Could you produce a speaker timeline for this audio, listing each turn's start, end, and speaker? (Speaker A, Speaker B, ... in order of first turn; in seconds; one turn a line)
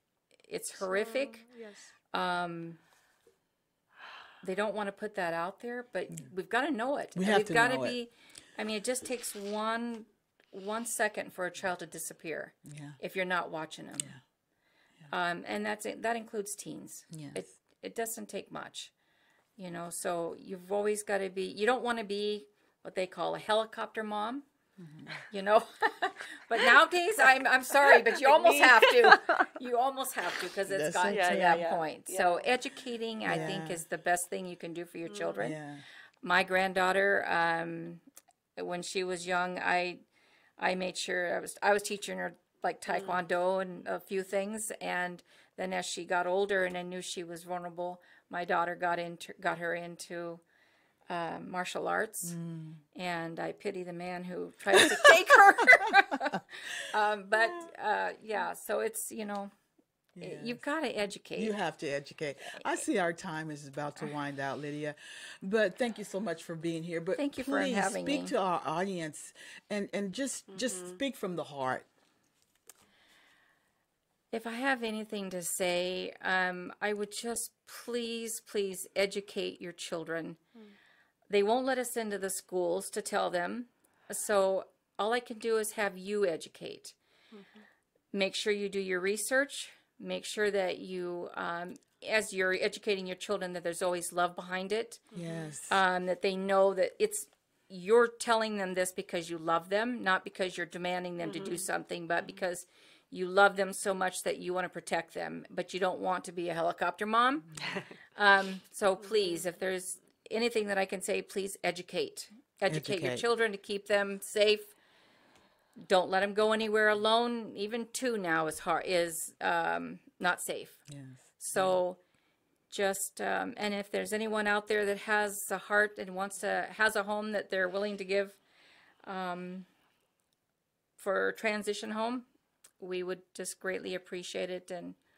Speaker A: 0.5-1.4
Speaker B: 0.8-1.9
Speaker A: 2.1-2.8
Speaker A: 4.4-14.2
Speaker C: 7.2-8.0
Speaker C: 12.6-13.0
Speaker A: 15.1-18.9
Speaker C: 17.1-17.4
Speaker A: 19.6-24.4
Speaker C: 24.8-25.2
Speaker A: 25.3-35.6
Speaker B: 28.4-29.2
Speaker C: 30.7-31.6
Speaker B: 31.1-32.5
Speaker C: 33.2-33.8
Speaker B: 35.1-35.4
Speaker C: 35.4-35.8
Speaker A: 36.2-38.0
Speaker A: 38.6-40.0
Speaker A: 40.6-50.4
Speaker B: 42.9-43.2
Speaker A: 51.1-52.4
Speaker C: 52.2-52.8
Speaker A: 52.9-59.5
Speaker C: 54.7-55.9
Speaker C: 60.1-60.6
Speaker A: 60.2-61.5
Speaker C: 61.4-71.8
Speaker A: 62.5-62.8
Speaker A: 67.2-68.3
Speaker B: 70.5-71.0
Speaker A: 74.3-80.4
Speaker A: 81.3-87.0
Speaker B: 87.3-87.6
Speaker A: 88.1-95.0
Speaker B: 95.1-95.6
Speaker C: 95.1-95.8
Speaker A: 95.7-107.5
Speaker B: 101.3-101.7
Speaker A: 108.2-114.7
Speaker B: 109.1-109.4
Speaker C: 112.7-113.2
Speaker A: 115.8-120.8
Speaker C: 120.9-121.8
Speaker A: 121.4-122.0
Speaker A: 122.7-128.4
Speaker A: 129.0-129.7
Speaker A: 131.0-132.3
Speaker A: 132.8-135.0